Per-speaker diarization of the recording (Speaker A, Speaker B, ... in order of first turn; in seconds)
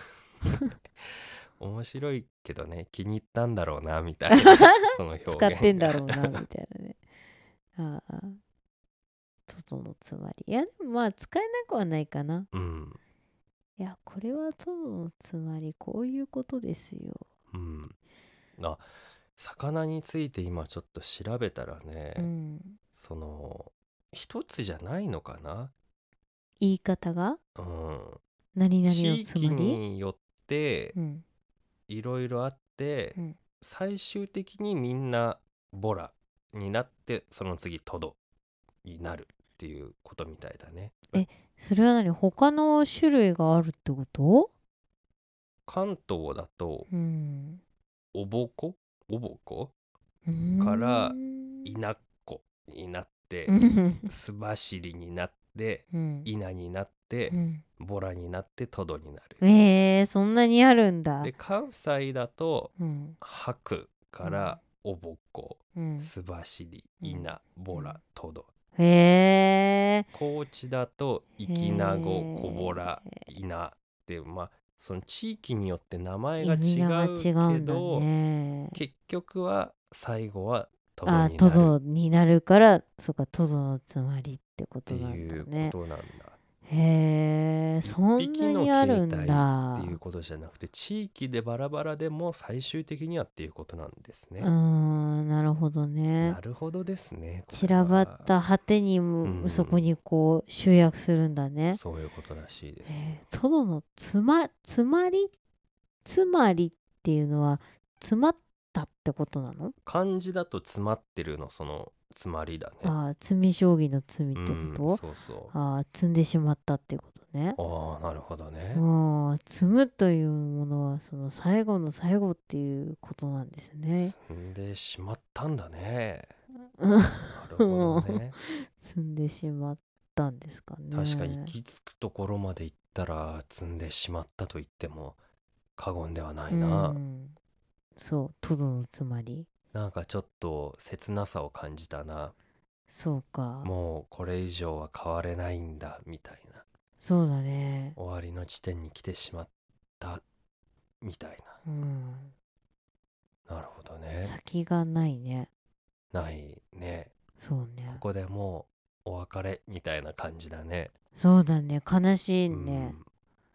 Speaker A: 0.4-0.7, 4.3-7.0, 7.8-8.4, 9.5-12.5, 13.8-17.2, 22.2-22.8, 26.6-27.4, 28.5-29.8, 30.9-31.2, 41.1-44.5, 46.9-47.6, 50.2-51.7, 53.5-54.1, 55.9-56.3, 57.3-57.6, 59.4-61.3, 62.8-63.2, 64.2-64.6, 65.7-66.1, 67.0-68.0, 68.8-70.1, 71.5-73.2, 76.4-78.8, 81.0-85.8, 86.7-90.0, 94.4-96.4, 97.5-101.8, 102.8-105.3, 106.0-109.7, 112.8-117.6, 118.7-124.1, 126.8-131.5, 136.5-137.3, 137.9-139.5, 142.9-143.7, 147.0-148.0, 151.6-152.3, 154.2-155.5, 157.4-158.0, 161.1-163.0
Speaker B: 1.0-6.4, 12.5-13.0, 17.5-17.9, 18.6-22.3, 22.9-25.7, 27.6-28.2, 28.8-30.9, 31.9-38.2, 38.8-41.2, 45.7-46.9, 48.1-49.7, 50.6-53.5, 54.1-59.4, 61.2-68.5, 70.1-78.1, 78.7-81.8, 84.9-86.4, 87.8-94.5, 96.2-98.3, 99.2-99.8, 101.7-103.2, 109.8-113.0, 114.3-115.5, 117.6-118.8, 123.9-126.3, 127.3-128.4, 130.9-135.2, 135.8-137.0, 139.7-142.3, 143.6-146.6, 148.0-150.2, 151.0-151.6, 153.5-154.3, 156.1-157.1, 157.9-160.9, 162.5-163.1